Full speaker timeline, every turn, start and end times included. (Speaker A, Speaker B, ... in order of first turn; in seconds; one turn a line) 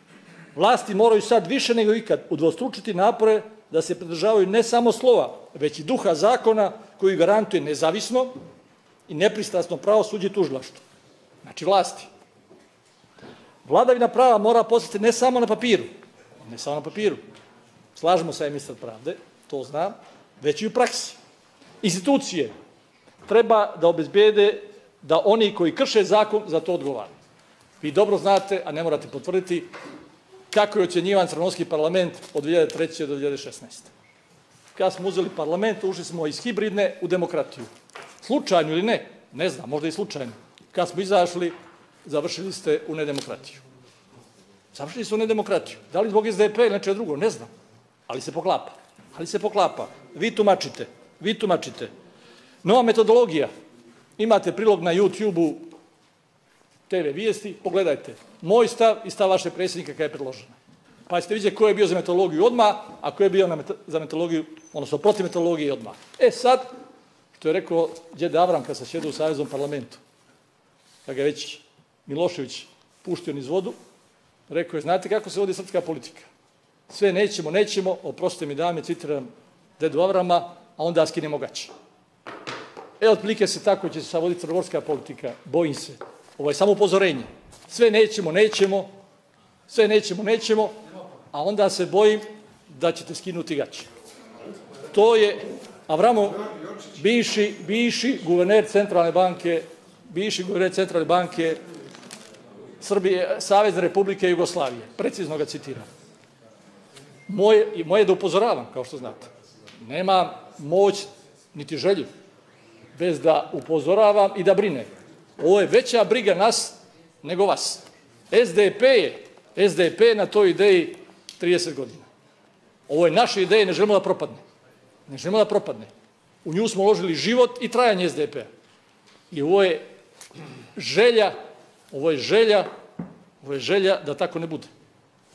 Speaker A: 0.6-8.4
Speaker A: 9.1-10.8
Speaker A: 11.4-12.1
Speaker A: 13.7-15.9
Speaker A: 16.4-17.2
Speaker A: 18.0-21.2
Speaker A: 21.8-22.5
Speaker A: 23.3-27.1
Speaker A: 27.8-29.7
Speaker A: 30.5-33.9
Speaker A: 34.8-37.7
Speaker A: 38.2-43.6
Speaker A: 44.7-47.5
Speaker A: 48.1-51.9
Speaker A: 52.6-53.5
Speaker A: 54.2-55.7
Speaker A: 56.9-60.6
Speaker A: 61.1-66.7
Speaker A: 67.4-70.0
Speaker A: 71.1-73.8
Speaker A: 74.5-76.3
Speaker A: 76.9-79.3
Speaker A: 79.8-81.7
Speaker A: 83.0-88.9
Speaker A: 89.7-90.8
Speaker A: 91.3-93.9
Speaker A: 94.9-101.6
Speaker A: 102.8-105.9
Speaker A: 107.3-109.3
Speaker A: 109.8-112.1
Speaker A: 113.0-122.1
Speaker A: 122.9-124.4
Speaker A: 125.1-125.9
Speaker A: 126.5-128.5
Speaker A: 129.3-129.8
Speaker A: 130.8-131.3
Speaker A: 131.9-132.7
Speaker A: 133.4-134.7